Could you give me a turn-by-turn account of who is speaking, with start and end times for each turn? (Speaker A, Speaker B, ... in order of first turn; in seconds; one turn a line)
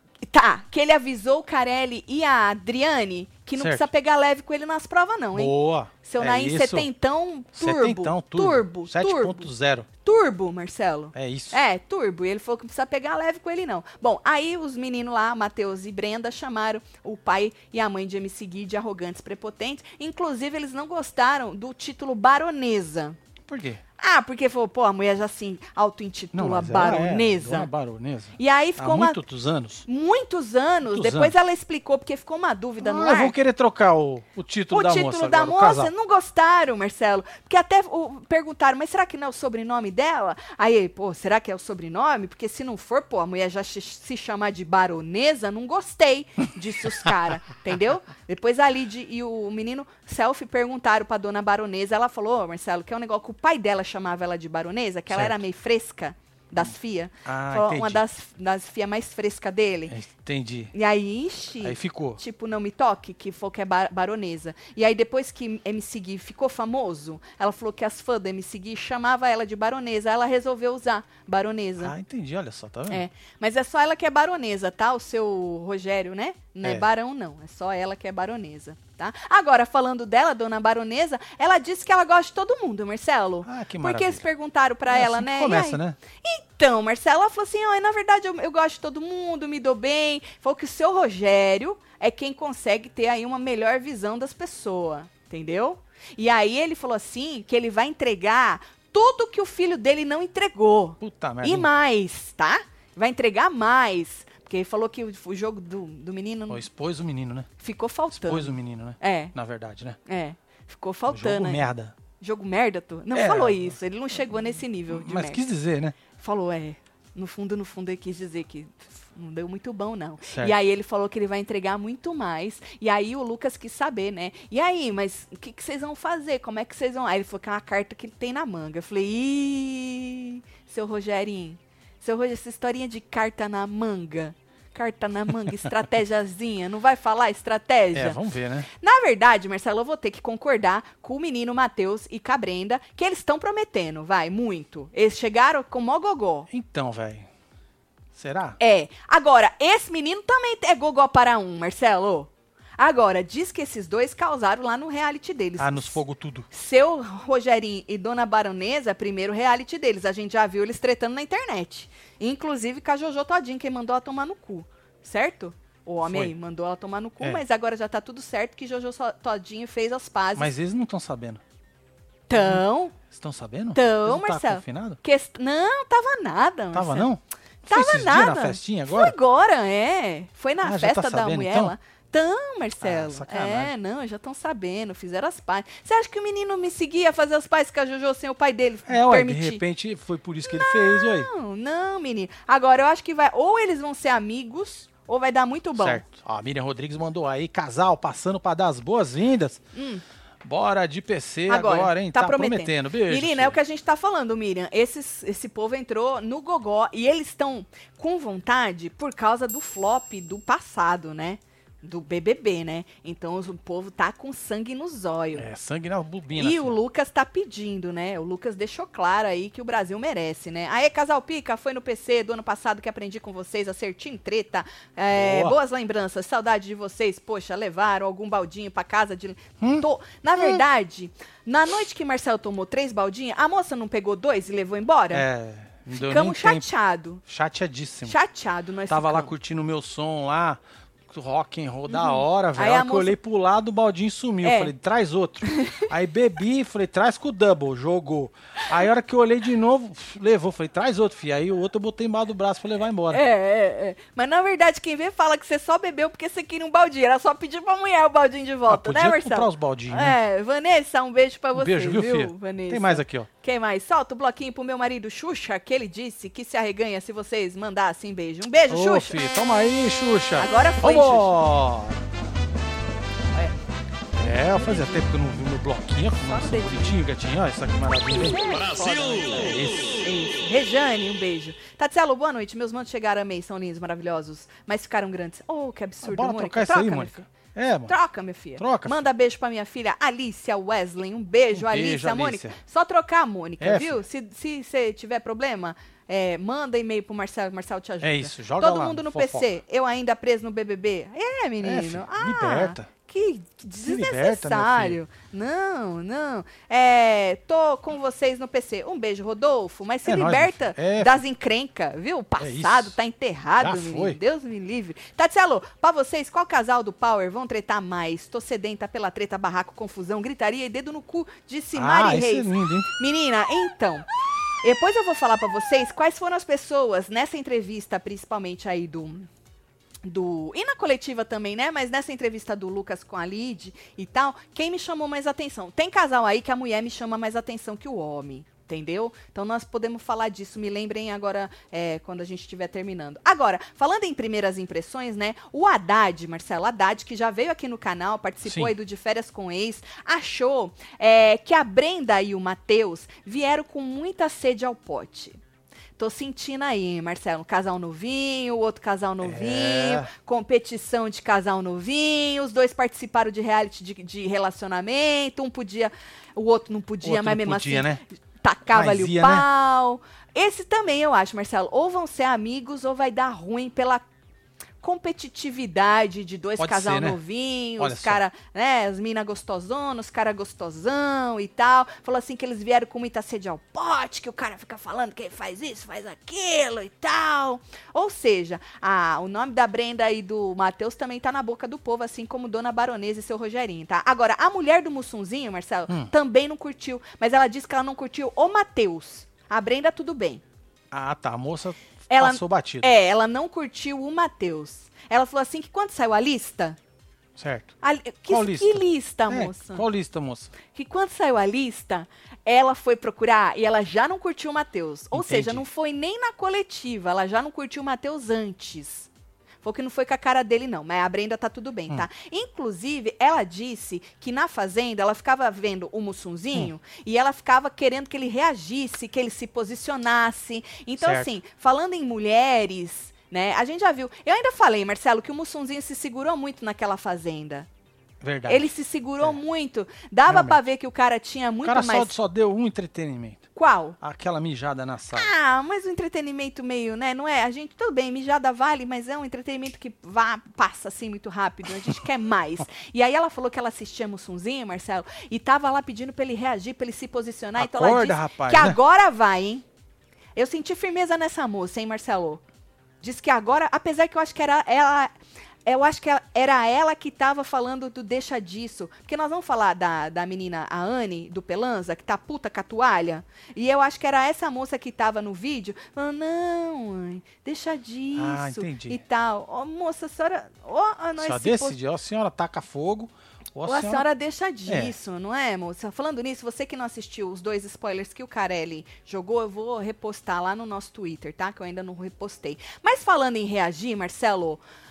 Speaker A: 0.2-9.5
Speaker B: 3.6-3.9
Speaker B: 5.3-6.9
Speaker B: 7.5-9.9
Speaker A: 10.0-23.2
Speaker B: 11.1-11.6
Speaker B: 23.4-23.8
Speaker A: 24.0-27.7
Speaker B: 26.3-29.8
Speaker A: 28.4-29.2
Speaker A: 29.9-33.4
Speaker B: 30.9-31.3
Speaker B: 32.8-35.9
Speaker A: 34.7-59.9
Speaker B: 55.1-55.4
Speaker B: 57.2-58.0
Speaker B: 59.9-60.7
Speaker A: 60.7-71.9
Speaker B: 61.6-62.2
Speaker B: 71.8-73.0
Speaker A: 72.9-106.6
Speaker B: 83.4-84.2
Speaker B: 84.9-86.0
Speaker B: 101.0-101.7
Speaker B: 106.5-107.5
Speaker A: 107.6-109.3
Speaker B: 108.1-110.0
Speaker A: 110.0-111.6
Speaker B: 111.1-111.9
Speaker A: 112.2-115.4
Speaker B: 113.1-113.8
Speaker B: 114.9-116.0
Speaker A: 116.2-146.5
Speaker B: 120.2-120.5
Speaker B: 137.9-138.7
Speaker B: 146.5-147.3
Speaker B: 148.1-148.6
Speaker A: 148.6-170.5
Speaker B: 155.6-156.5
Speaker B: 166.0-166.3
Speaker B: 170.3-171.4
Speaker A: 172.3-173.0
Speaker B: 172.3-175.0
Speaker A: 173.7-177.1
Speaker B: 176.7-179.2
Speaker A: 177.7-189.6
Speaker B: 180.6-181.7
Speaker B: 182.8-183.7
Speaker B: 188.9-191.3
Speaker A: 190.4-196.0
Speaker B: 195.8-199.6
Speaker A: 199.7-200.0
Speaker B: 200.4-203.6
Speaker A: 201.5-215.5
Speaker B: 215.3-216.8
Speaker A: 216.4-235.2
Speaker B: 225.1-225.6
Speaker B: 229.6-229.8
Speaker B: 230.3-230.6
Speaker B: 235.1-236.7
Speaker A: 235.9-237.2
Speaker B: 237.3-238.2
Speaker A: 238.0-239.3
Speaker B: 238.9-253.2
Speaker A: 241.9-243.2
Speaker A: 244.4-244.7
Speaker A: 245.4-245.9
Speaker A: 253.1-269.2
Speaker B: 258.7-260.2
Speaker B: 261.5-263.3
Speaker B: 268.7-272.0
Speaker A: 270.4-271.3
Speaker B: 274.1-280.0
Speaker A: 276.2-277.0
Speaker A: 278.2-278.9
Speaker A: 280.0-287.3
Speaker B: 286.0-287.9
Speaker A: 287.9-324.1
Speaker B: 288.6-289.0
Speaker B: 291.5-292.6
Speaker B: 293.6-294.0
Speaker B: 298.0-299.5
Speaker B: 301.6-302.9
Speaker B: 303.8-305.0
Speaker B: 310.0-311.2
Speaker B: 312.4-312.9
Speaker B: 313.6-314.2
Speaker B: 321.7-322.9
Speaker A: 324.6-329.3
Speaker A: 330.0-355.4
Speaker B: 348.4-348.7
Speaker A: 356.0-374.0
Speaker B: 359.2-360.1
Speaker B: 367.0-368.0
Speaker B: 368.7-369.5
Speaker A: 374.8-400.4
Speaker B: 376.6-377.2
Speaker B: 377.8-378.2
Speaker B: 400.9-402.9
Speaker A: 402.1-406.8
Speaker B: 407.4-407.7
Speaker A: 407.8-409.8
Speaker B: 408.3-410.5
Speaker A: 410.7-419.1
Speaker B: 415.1-415.6
Speaker A: 419.6-437.7
Speaker B: 431.0-431.3
Speaker B: 438.2-439.4
Speaker A: 438.5-442.1
Speaker B: 440.3-440.6
Speaker B: 441.6-443.5
Speaker A: 443.5-444.0
Speaker B: 444.0-445.3
Speaker A: 445.1-459.6
Speaker B: 457.6-458.8
Speaker A: 460.4-462.4
Speaker A: 463.0-465.1
Speaker A: 465.6-481.8
Speaker B: 478.1-479.0
Speaker B: 481.2-484.1
Speaker A: 483.6-494.6
Speaker B: 484.7-484.9